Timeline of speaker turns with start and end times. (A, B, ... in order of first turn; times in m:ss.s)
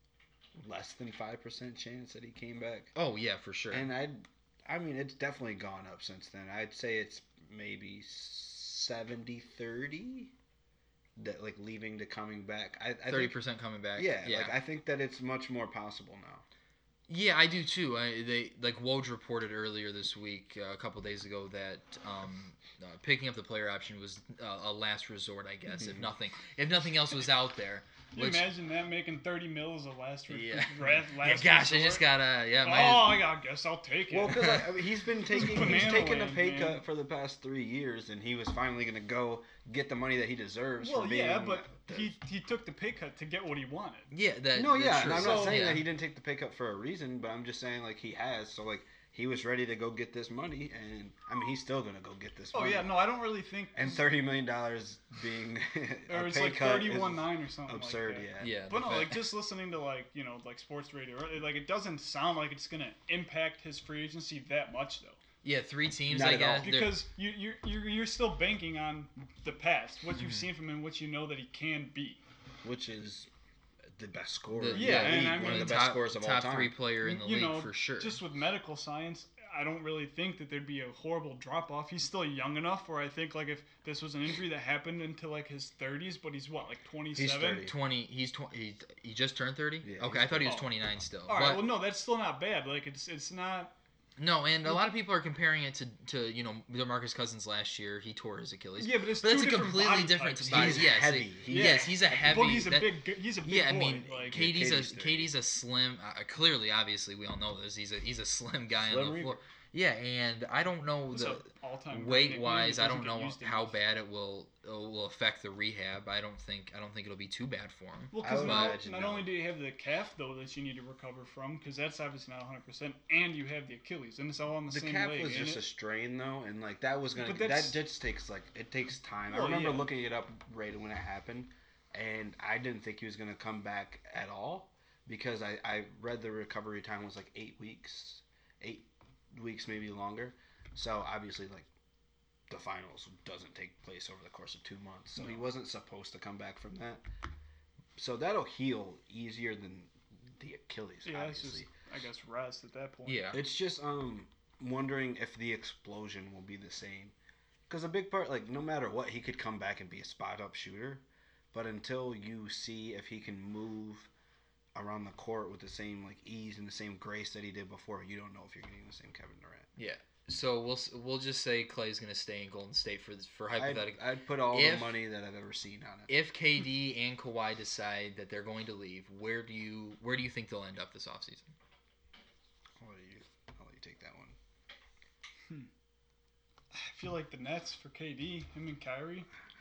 0:00.6-0:02.9 A
0:03.0-0:03.9 B
0:03.7-0:10.3 A
0:11.2-0:13.4 A
0:13.1-0:14.6 B
0:14.0-0:16.4 A
0:17.1-0:28.5 B
0:25.8-0:26.1 A
0:28.1-0:32.1 C
0:30.3-0:33.3 B
0:32.6-0:34.7 C
0:34.1-0:42.1 A
0:35.3-0:36.8 C
0:40.8-0:44.1 C
0:44.1-0:45.8 B
0:44.5-0:53.0 A
0:45.0-0:45.7 C
0:52.5-0:54.0 C
0:53.8-0:58.6 A
0:56.1-1:05.2 C
0:58.4-0:59.2 B
1:05.4-1:07.0 B
1:06.1-1:06.7 A
1:06.6-1:12.2 C
1:10.2-1:10.5 B
1:12.6-1:13.3 A
1:14.0-1:16.8 A
1:14.5-1:18.2 B
1:14.7-1:15.9 C
1:17.0-1:27.7 C
1:27.2-1:27.8 A
1:27.6-1:31.6 B
1:29.8-1:30.6 A
1:30.4-1:30.7 C
1:31.3-1:33.7 C
1:34.2-1:58.8 B
1:34.6-1:34.9 C
1:38.8-1:41.0 C
1:40.5-1:42.1 A
1:41.5-1:44.4 C
1:44.2-1:45.3 A
1:48.7-1:49.4 A
1:51.1-1:53.8 C
1:58.1-2:05.6 C
1:58.2-1:59.3 A
2:04.7-2:21.7 A
2:07.2-2:07.8 C
2:09.3-2:09.9 C
2:22.5-2:27.0 A
2:28.0-2:31.7 A
2:31.0-2:33.3 C
2:33.1-2:33.4 B
2:33.3-2:37.1 A
2:37.7-2:44.1 A
2:44.8-2:49.7 A
2:49.8-2:55.0 B
2:53.6-2:56.1 A
2:56.1-3:01.5 B
3:02.8-3:04.4 A
3:06.7-3:09.3 C